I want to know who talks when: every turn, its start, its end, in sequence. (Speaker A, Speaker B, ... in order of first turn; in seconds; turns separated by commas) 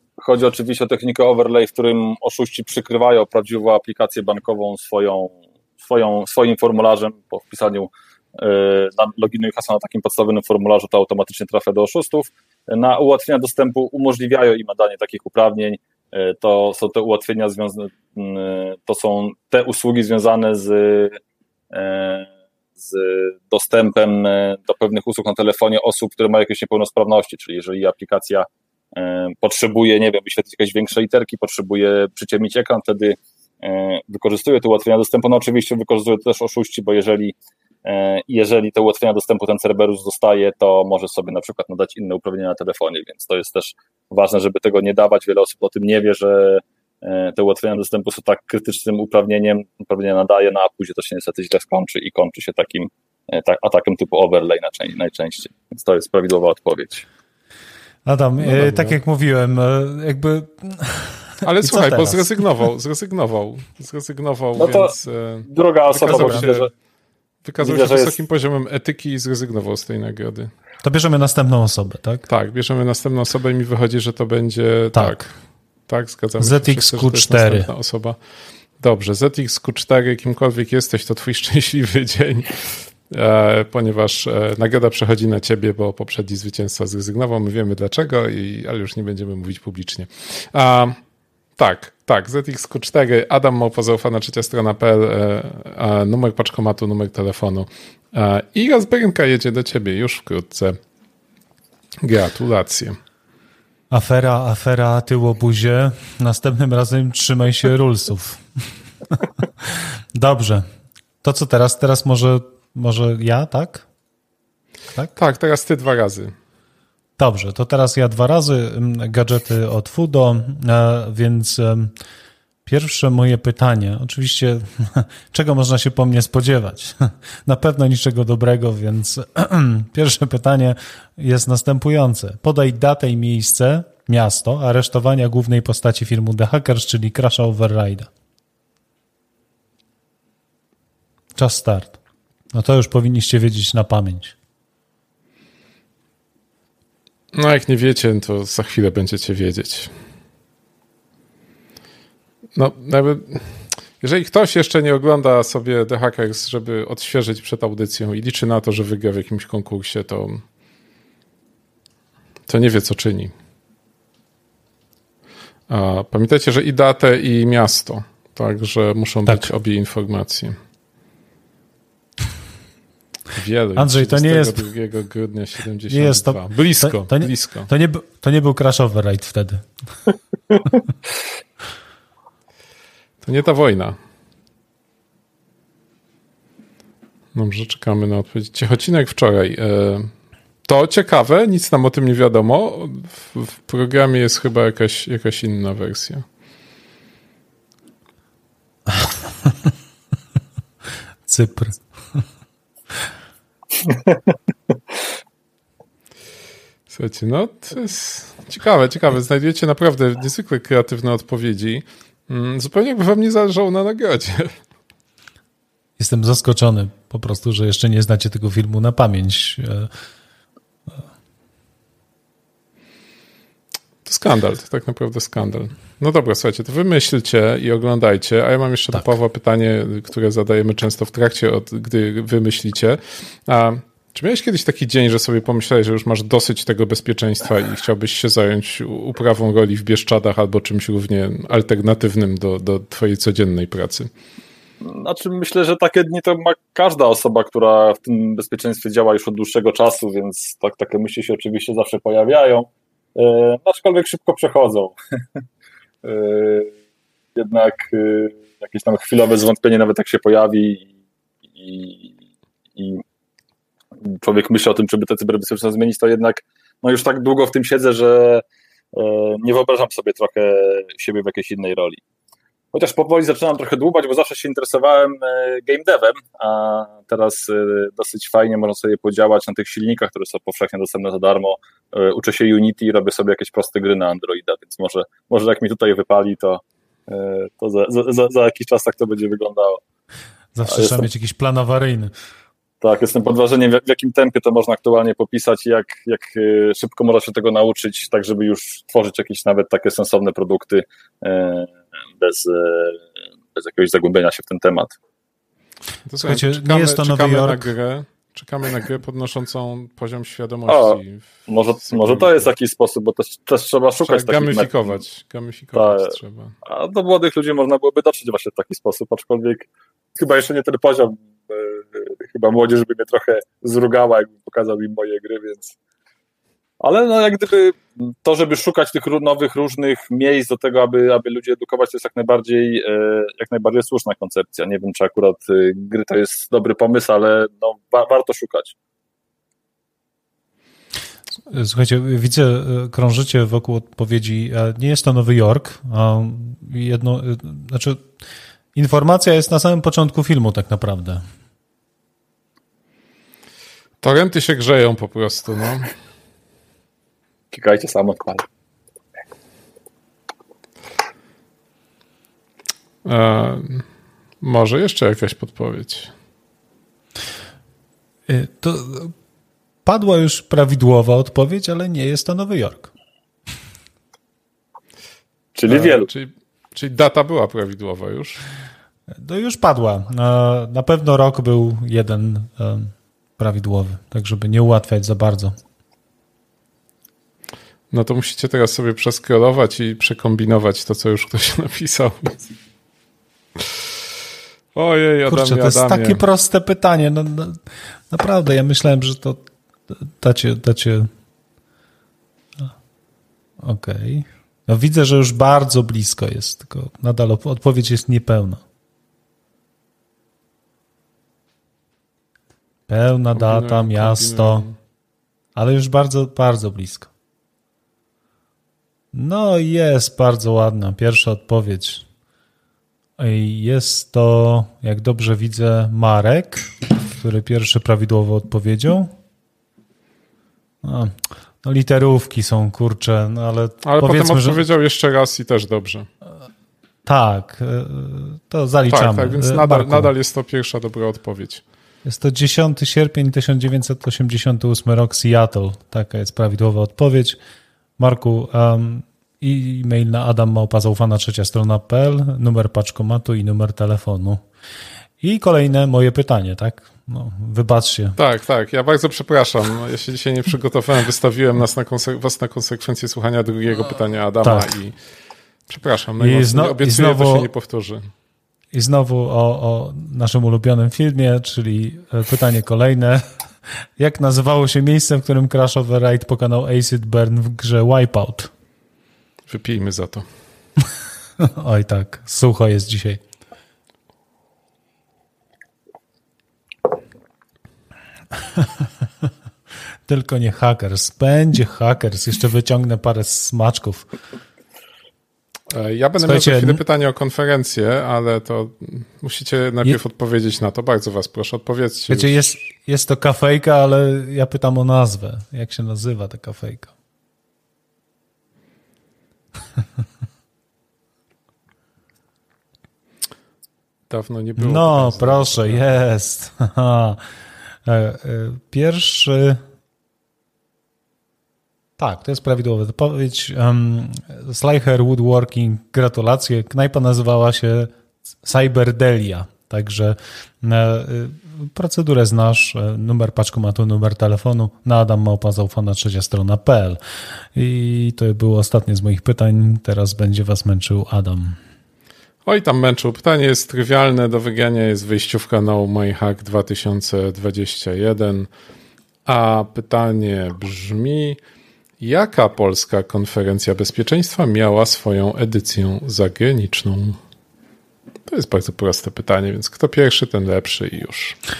Speaker A: 0.2-21.2, Speaker A: 21.7-57.0, Speaker B: 58.0-62.4, Speaker A: 58.6-58.9, Speaker C: 61.4-66.7, Speaker A: 64.5-64.9, Speaker A: 65.5-66.7, Speaker C: 67.4-70.5, Speaker A: 67.6-68.1, Speaker B: 70.8-72.2, Speaker C: 72.3-75.3, Speaker B: 74.9-75.3, Speaker C: 75.9-78.2, Speaker B: 76.4-77.7, Speaker C: 78.8-91.0, Speaker C: 91.6-100.8, Speaker C: 102.0-103.0, Speaker B: 103.9-110.7, Speaker B: 111.2-113.8, Speaker C: 115.2-116.3, Speaker B: 117.2-121.9, Speaker B: 122.6-138.1, Speaker B: 141.4-142.0, Speaker B: 142.5-144.3, Speaker C: 147.3-149.9, Speaker C: 152.6-160.4, Speaker C: 162.5-163.3, Speaker C: 165.7-170.5, Speaker C: 173.3-177.7, Speaker B: 173.8-174.7, Speaker B: 175.9-179.7, Speaker C: 183.2-184.0, Speaker C: 187.3-190.1, Speaker C: 190.7-196.2, Speaker B: 201.2-202.2, Speaker A: 203.9-204.1, Speaker C: 206.9-214.6, Speaker B: 216.0-219.9, Speaker C: 224.0-244.1, Speaker A: 244.8-254.9, Speaker A: 256.0-256.7, Speaker A: 257.4-260.9, Speaker A: 261.6-262.1, Speaker A: 262.8-263.0, Speaker A: 264.0-272.0, Speaker A: 272.7-289.8, Speaker B: 290.5-292.1, Speaker A: 290.7-291.1, Speaker A: 292.8-304.9, Speaker C: 306.1-312.4, Speaker B: 306.2-307.7, Speaker A: 310.7-315.0, Speaker C: 314.0-316.5, Speaker A: 315.7-325.8, Speaker A: 326.8-338.7, Speaker B: 341.5-348.1, Speaker B: 348.7-351.2, Speaker C: 354.0-355.9, Speaker A: 357.5-358.4, Speaker C: 363.0-363.9, Speaker C: 364.4-366.1, Speaker B: 368.3-369.1, Speaker B: 369.8-372.9, Speaker A: 375.5-376.1, Speaker C: 375.7-378.4, Speaker B: 379.1-385.6, Speaker C: 387.9-392.5, Speaker C: 394.7-396.2, Speaker B: 395.2-401.1, Speaker B: 403.6-408.6, Speaker B: 412.9-414.7, Speaker C: 413.3-414.8, Speaker B: 415.5-417.1, Speaker B: 419.1-422.1, Speaker B: 423.2-429.1, Speaker B: 430.8-434.6, Speaker C: 433.8-436.1, Speaker B: 437.1-440.1, Speaker C: 438.9-441.6, Speaker B: 442.0-447.4, Speaker B: 448.0-454.4, Speaker B: 455.2-458.2, Speaker C: 458.2-464.9, Speaker B: 464.4-464.7, Speaker C: 465.7-468.1, Speaker B: 466.2-467.5, Speaker B: 468.7-473.2, Speaker B: 474.0-478.5, Speaker C: 479.5-480.2, Speaker B: 481.4-483.2, Speaker B: 488.5-488.9, Speaker B: 490.1-494.1, Speaker C: 495.7-502.4, Speaker B: 496.2-496.8, Speaker B: 502.1-506.9, Speaker C: 514.1-516.0, Speaker B: 514.6-517.2, Speaker B: 517.8-519.6, Speaker B: 522.0-537.0, Speaker B: 537.5-541.6, Speaker C: 542.4-548.5, Speaker C: 549.2-551.4, Speaker C: 552.0-557.2, Speaker C: 558.3-561.4